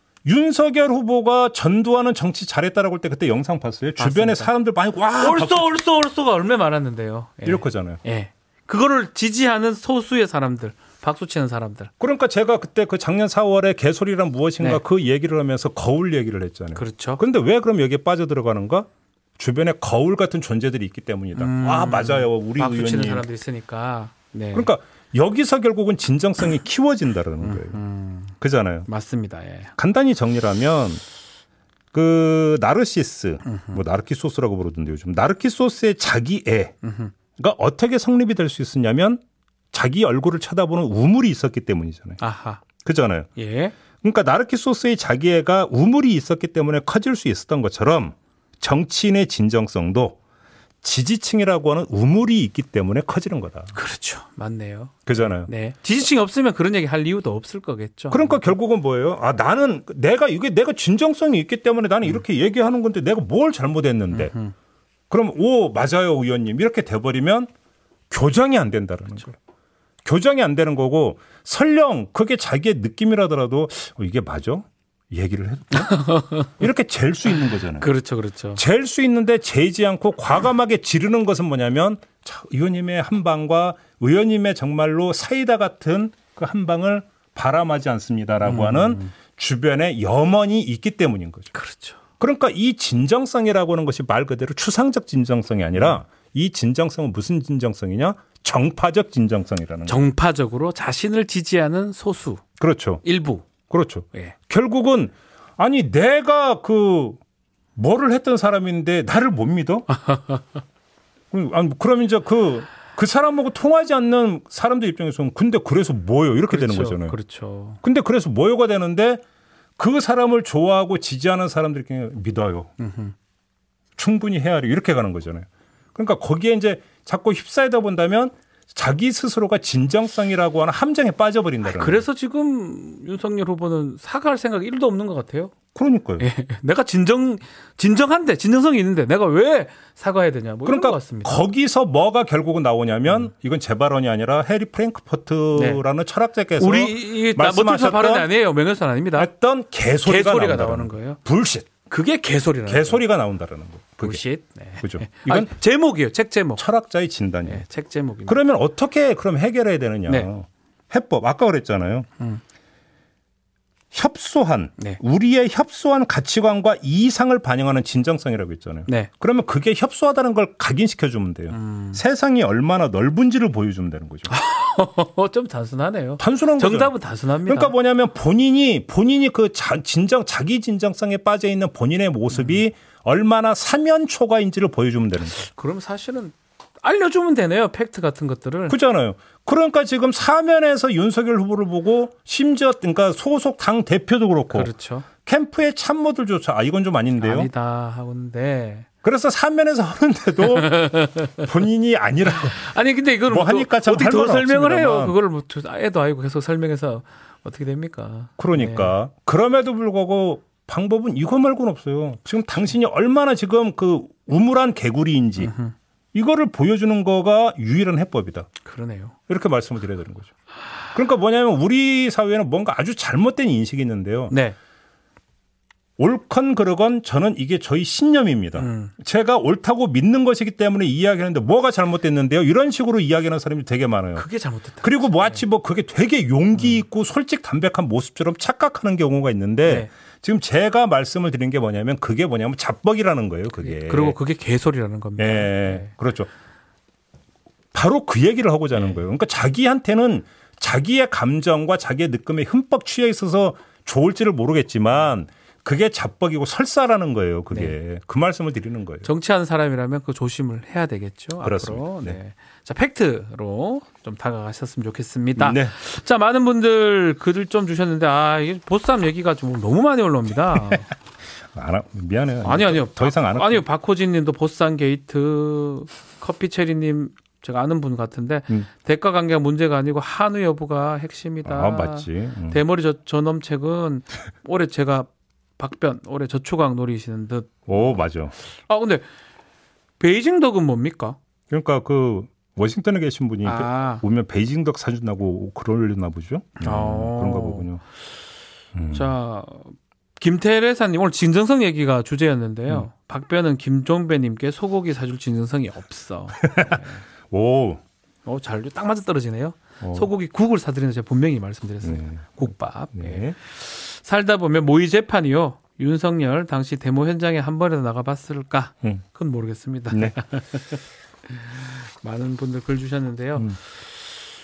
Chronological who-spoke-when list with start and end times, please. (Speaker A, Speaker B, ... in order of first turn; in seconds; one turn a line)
Speaker A: 0.2-5.7
Speaker B: 4.0-4.5
Speaker B: 5.2-11.9
Speaker A: 7.4-8.0
Speaker A: 12.0-23.3
Speaker B: 16.7-17.2
Speaker B: 21.4-24.7
Speaker A: 24.5-27.8
Speaker B: 27.4-28.3
Speaker A: 28.4-28.9
Speaker B: 28.9-29.7
Speaker A: 29.8-31.0
Speaker A: 31.9-36.7
Speaker B: 33.4-33.8
Speaker B: 36.8-37.1
Speaker A: 37.4-42.2
Speaker B: 42.2-42.6
Speaker A: 42.8-43.3
Speaker B: 43.4-43.7
Speaker A: 44.0-50.2
Speaker A: 50.8-53.7
Speaker B: 53.7-58.5
Speaker A: 55.0-55.5
Speaker A: 58.1-64.3
Speaker B: 64.1-64.5
Speaker A: 65.1-67.5
Speaker A: 68.1-69.3
Speaker A: 70.0-77.9
Speaker B: 75.7-76.6
Speaker B: 77.8-78.6
Speaker A: 78.5-91.5
Speaker B: 88.4-89.1
Speaker B: 91.5-92.0
Speaker A: 92.2-100.0
Speaker B: 99.9-102.4
Speaker A: 102.6-103.0
Speaker B: 103.0-103.5
Speaker A: 103.7-107.2
Speaker A: 107.8-109.9
Speaker B: 109.9-110.6
Speaker A: 111.3-117.2
Speaker B: 116.5-117.8
Speaker A: 117.8-119.2
Speaker A: 119.8-122.7
Speaker B: 122.8-123.1
Speaker A: 124.0-132.0
Speaker B: 131.6-135.5
Speaker A: 135.7-136.3
Speaker B: 136.2-141.3
Speaker A: 140.6-148.3
Speaker B: 145.5-145.8
Speaker B: 146.6-149.3
Speaker A: 149.2-151.7
Speaker B: 150.0-151.2
Speaker B: 151.8-153.0
Speaker A: 152.7-154.2
Speaker B: 154.0-156.6
Speaker A: 154.8-155.5
Speaker A: 156.6-157.6
Speaker B: 157.4-158.4
Speaker A: 158.3-162.1
Speaker A: 163.9-174.3
Speaker B: 171.5-172.0
Speaker B: 174.3-177.7
Speaker A: 176.2-176.9
Speaker A: 177.4-185.4
Speaker B: 185.4-188.8
Speaker A: 188.7-194.7
Speaker B: 194.5-195.1
Speaker A: 195.2-197.5
Speaker B: 197.2-198.9
Speaker A: 199.0-202.7
Speaker B: 200.4-201.4
Speaker B: 202.3-208.9
Speaker A: 203.3-205.2
Speaker A: 208.4-215.5
Speaker B: 215.4-215.7
Speaker A: 216.1-218.5
Speaker B: 218.6-219.1
Speaker A: 219.3-220.3
Speaker A: 220.9-224.3
Speaker B: 224.3-224.6
Speaker A: 226.0-234.2
Speaker B: 228.6-228.9
Speaker B: 234.2-235.4
Speaker A: 234.8-244.2
Speaker B: 243.6-245.9
Speaker A: 245.2-246.3
Speaker A: 247.7-259.1
Speaker B: 259.0-270.9
Speaker A: 261.4-262.2
Speaker A: 265.4-265.7
Speaker A: 271.5-273.6
Speaker B: 272.4-288.0
Speaker A: 281.4-282.6
Speaker A: 287.7-288.3
Speaker B: 288.7-289.0
Speaker B: 290.0-291.2
Speaker A: 291.5-297.8
Speaker B: 293.4-294.0
Speaker B: 296.6-297.7
Speaker A: 298.7-299.1
Speaker B: 298.9-307.0
Speaker A: 306.4-306.8
Speaker A: 307.3-307.8
Speaker B: 308.2-324.2
Speaker A: 309.8-310.1
Speaker A: 311.8-313.4
Speaker A: 319.9-320.2